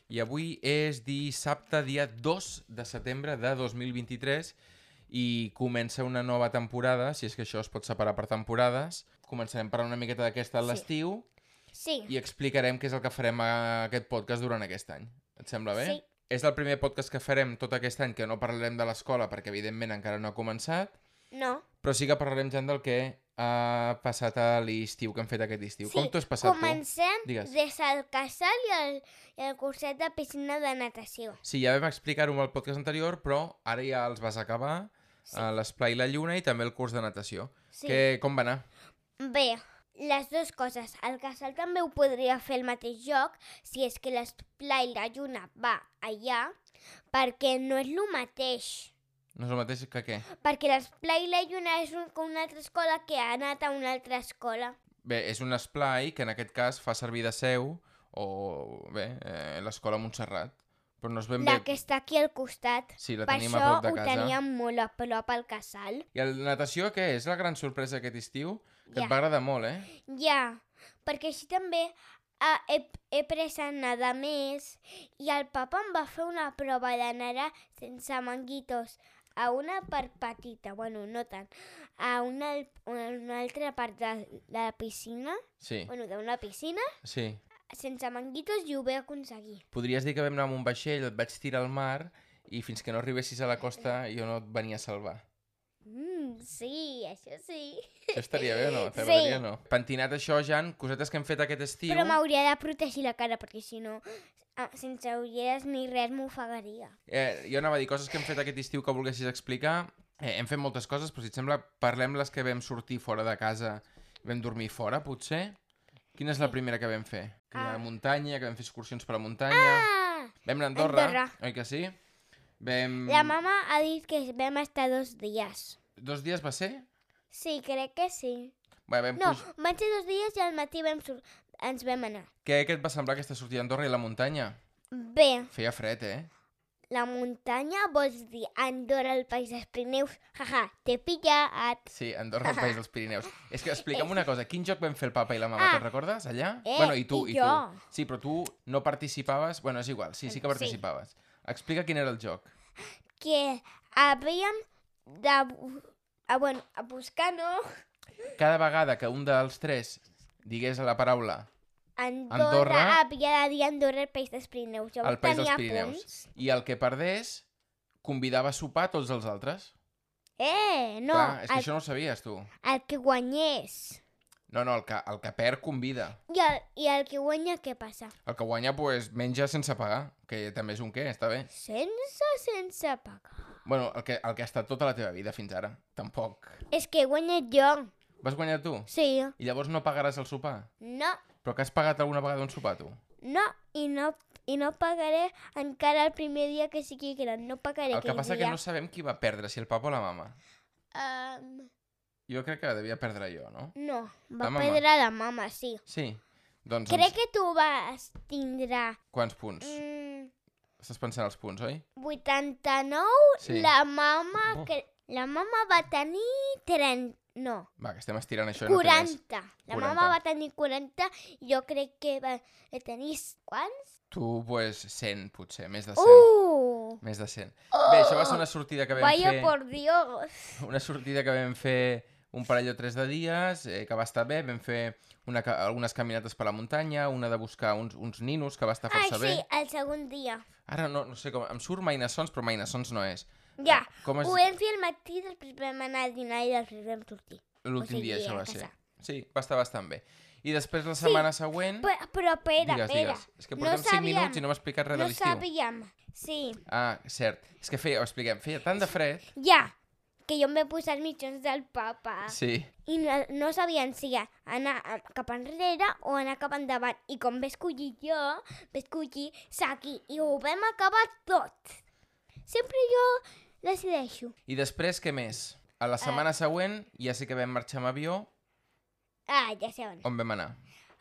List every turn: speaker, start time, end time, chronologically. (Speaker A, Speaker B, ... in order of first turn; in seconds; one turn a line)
Speaker A: 0.1-4.6
Speaker A: 5.1-11.2
Speaker B: 11.7-12.1
Speaker A: 12.1-20.9
Speaker B: 15.7-16.0
Speaker B: 21.3-21.6
Speaker A: 21.8-27.5
Speaker B: 25.9-31.4
Speaker A: 31.4-38.6
Speaker B: 37.7-38.1
Speaker B: 39.2-46.5
Speaker B: 47.1-48.9
Speaker A: 49.4-50.3
Speaker B: 50.3-54.8
Speaker A: 55.0-61.7
Speaker B: 61.4-66.0
Speaker A: 63.0-64.4
Speaker A: 66.1-69.9
Speaker B: 68.9-69.2
Speaker B: 70.0-86.9
Speaker A: 85.6-85.9
Speaker A: 87.0-87.4
Speaker B: 87.7-89.6
Speaker A: 89.7-95.2
Speaker B: 95.9-99.4
Speaker A: 98.1-102.2
Speaker B: 101.9-107.0
Speaker A: 107.1-115.6
Speaker A: 116.2-119.9
Speaker B: 117.5-117.9
Speaker B: 119.5-121.3
Speaker A: 120.5-122.0
Speaker A: 122.6-123.4
Speaker B: 123.0-125.8
Speaker A: 126.0-126.9
Speaker B: 127.3-128.5
Speaker A: 128.9-129.5
Speaker B: 129.2-132.3
Speaker A: 132.4-134.6
Speaker B: 134.9-135.5
Speaker A: 135.5-136.3
Speaker B: 136.9-141.8
Speaker A: 141.9-152.5
Speaker B: 142.4-142.8
Speaker B: 143.8-144.3
Speaker B: 145.6-145.9
Speaker B: 146.7-147.8
Speaker B: 150.3-150.8
Speaker B: 153.2-157.6
Speaker A: 158.4-161.5
Speaker B: 162.0-166.2
Speaker A: 162.3-163.0
Speaker A: 165.0-167.4
Speaker A: 168.0-169.7
Speaker B: 170.4-171.7
Speaker A: 171.1-172.5
Speaker B: 172.6-174.0
Speaker A: 174.5-176.2
Speaker B: 176.3-178.1
Speaker A: 178.3-181.5
Speaker B: 181.5-183.5
Speaker A: 183.7-186.6
Speaker B: 186.7-187.9
Speaker A: 188.2-190.7
Speaker B: 188.9-189.3
Speaker B: 190.8-191.2
Speaker A: 191.4-193.0
Speaker B: 193.2-198.6
Speaker A: 197.9-200.4
Speaker B: 200.9-201.7
Speaker A: 202.3-203.8
Speaker B: 203.8-205.8
Speaker A: 204.4-204.8
Speaker A: 205.9-207.1
Speaker B: 206.9-209.0
Speaker A: 209.1-209.8
Speaker B: 209.6-210.3
Speaker A: 210.8-211.8
Speaker B: 212.0-217.7
Speaker A: 213.4-213.7
Speaker A: 217.8-219.2
Speaker B: 218.6-223.9
Speaker A: 219.7-220.2
Speaker A: 224.1-226.3
Speaker B: 226.0-227.0
Speaker A: 227.0-229.5
Speaker B: 227.7-230.6
Speaker A: 230.6-239.4
Speaker B: 238.9-240.4
Speaker A: 240.7-244.5
Speaker B: 243.6-248.7
Speaker A: 247.6-251.9
Speaker B: 251.0-251.3
Speaker B: 251.8-256.6
Speaker A: 252.6-255.5
Speaker A: 256.7-259.3
Speaker B: 259.4-259.8
Speaker B: 260.3-271.8
Speaker A: 262.3-262.7
Speaker B: 272.5-274.3
Speaker A: 274.5-278.3
Speaker B: 276.0-276.3
Speaker B: 279.3-280.1
Speaker A: 280.0-280.6